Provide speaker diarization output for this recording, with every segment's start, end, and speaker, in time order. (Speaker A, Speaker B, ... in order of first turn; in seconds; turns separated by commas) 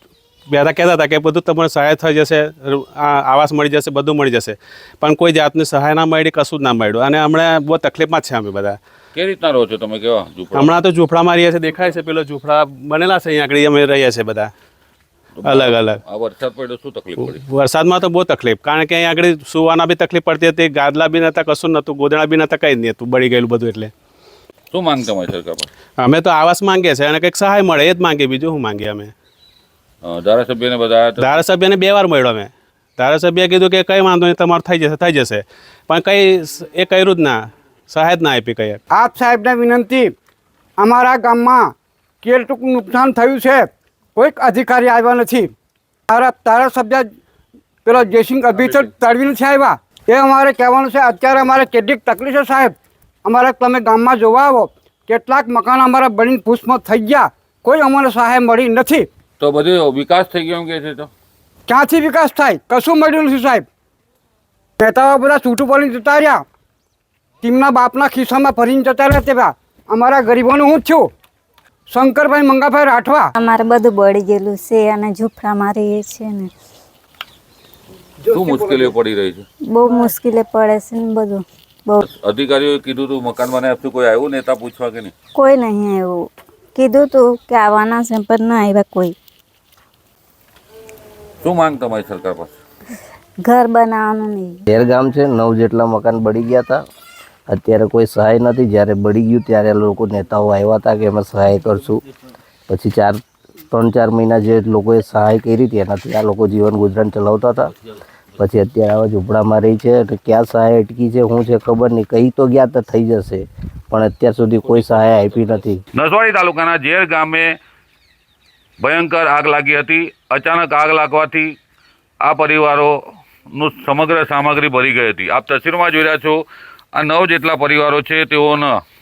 Speaker A: 0.5-8.8, Speaker B: 9.1-10.7, Speaker A: 10.5-14.5, Speaker B: 15.4-17.4, Speaker A: 15.4-16.0, Speaker A: 17.3-23.9, Speaker B: 24.7-25.7, Speaker A: 26.0-29.1, Speaker B: 30.0-31.4, Speaker A: 31.2-38.8, Speaker C: 38.9-40.1, Speaker C: 40.8-41.7, Speaker C: 42.2-45.5, Speaker C: 46.1-47.1, Speaker C: 47.9-52.7, Speaker C: 53.2-59.1, Speaker B: 59.4-61.1, Speaker C: 61.7-63.6, Speaker C: 64.8-66.4, Speaker C: 67.4-71.1, Speaker C: 71.9-73.3, Speaker D: 73.4-76.5, Speaker B: 78.3-79.4, Speaker D: 79.7-82.0, Speaker B: 82.0-85.1, Speaker D: 85.3-89.2, Speaker B: 91.4-92.5, Speaker D: 93.5-94.6, Speaker E: 94.7-96.8, Speaker E: 97.5-102.0, Speaker E: 102.7-103.2, Speaker E: 103.7-107.7, Speaker E: 108.4-115.8, Speaker B: 115.9-117.5, Speaker B: 118.8-121.5, Speaker B: 122.2-123.0, Speaker B: 123.5-126.4, Speaker B: 127.0-128.7